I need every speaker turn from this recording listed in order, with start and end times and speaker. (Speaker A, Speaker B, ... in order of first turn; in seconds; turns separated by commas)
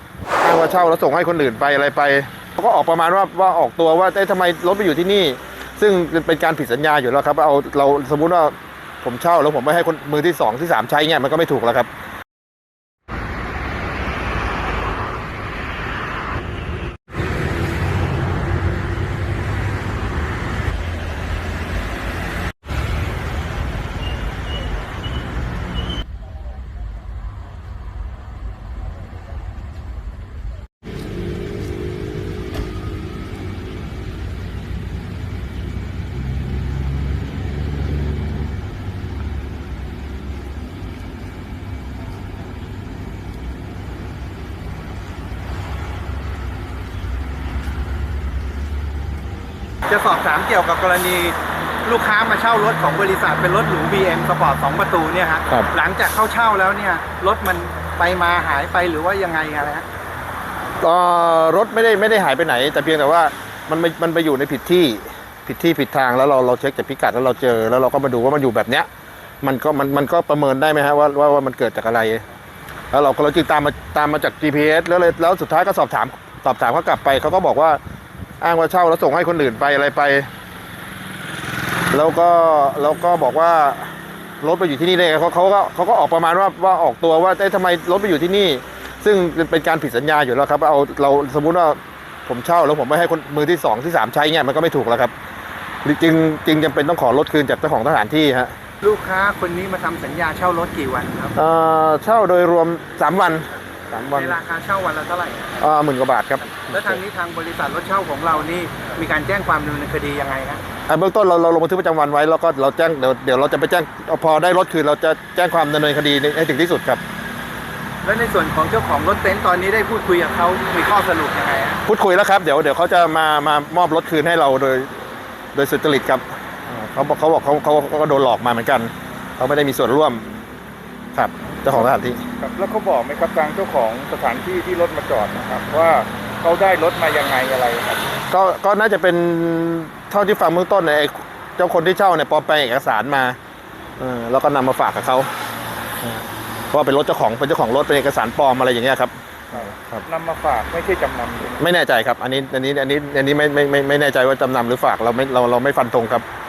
Speaker A: 0.4-11.9, Speaker B: 49.9-59.9, Speaker A: 60.8-68.9, Speaker A: 69.4-72.2, Speaker A: 72.9-77.8, Speaker A: 78.4-80.3, Speaker A: 81.9-95.1, Speaker A: 95.8-98.5, Speaker B: 98.8-101.3, Speaker A: 101.4-104.4, Speaker B: 104.1-105.6, Speaker A: 105.6-107.0, Speaker B: 106.6-110.6, Speaker A: 110.9-117.0, Speaker B: 118.0-121.8, Speaker A: 121.9-130.2, Speaker A: 131.1-132.2, Speaker C: 132.4-138.0, Speaker A: 138.3-143.4, Speaker A: 144.0-145.3, Speaker A: 146.0-150.0, Speaker C: 149.5-151.7, Speaker A: 151.6-156.3